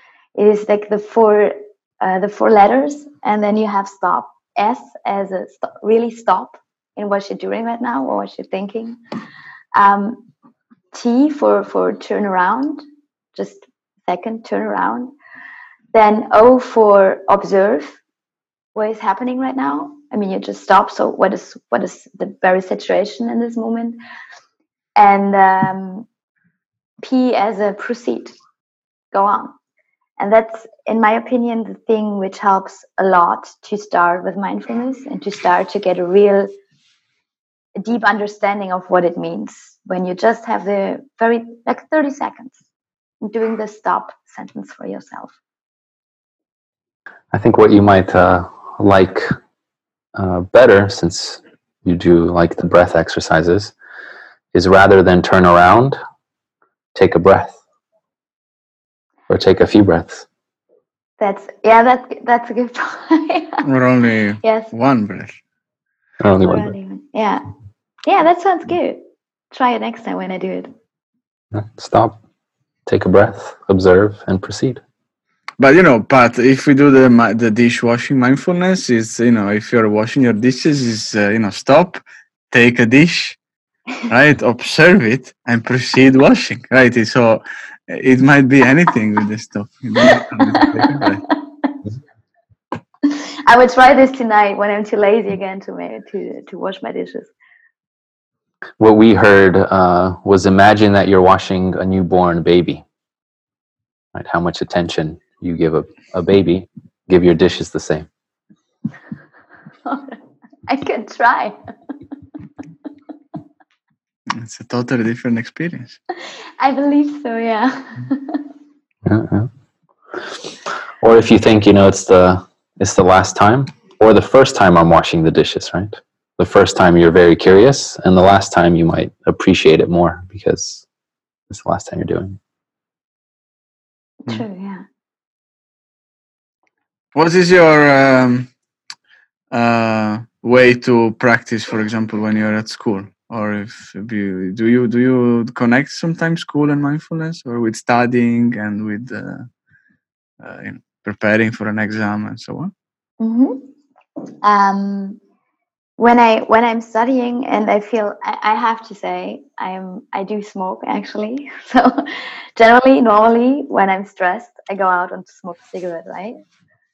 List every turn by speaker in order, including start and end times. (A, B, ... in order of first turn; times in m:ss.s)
0:00.4-0:09.0 A
0:09.8-0:10.3 A
0:10.9-0:12.8 A
0:13.4-0:15.1 A
0:15.9-0:18.0 A
0:18.8-0:24.0 A
0:25.0-0:26.1 A
0:27.0-0:28.4 A
0:29.1-0:29.6 A
0:30.2-0:36.5 A
0:37.8-0:42.6 A
0:43.2-0:45.4 A
0:47.3-0:49.3 B
0:50.2-0:53.7 B
0:54.5-0:56.0 B
0:57.0-0:57.6 B
0:59.3-1:00.3 B
1:01.2-1:03.6 A
1:03.6-1:05.4 C
1:04.4-1:04.7 A
1:06.2-1:06.7 B
1:06.4-1:07.4 A
1:08.0-1:10.7 A
1:11.5-1:12.2 B
1:12.9-1:14.8 B
1:15.6-1:23.4 C
1:24.1-1:31.3 C
1:30.6-1:31.0 A
1:33.1-1:37.3 A
1:38.8-1:42.8 B
1:44.1-1:48.1 B
1:49.8-1:51.6 A
1:54.3-1:56.0 C
1:56.6-1:58.4 A
1:59.0-1:59.5 B
2:01.0-2:10.8 B
2:11.5-2:12.4 B
2:14.2-2:14.8 A
2:17.2-2:18.5 C
2:19.5-2:29.5 C
2:30.4-2:32.7 C
2:33.2-2:33.7 A
2:34.4-2:35.2 A
2:36.0-2:46.4 A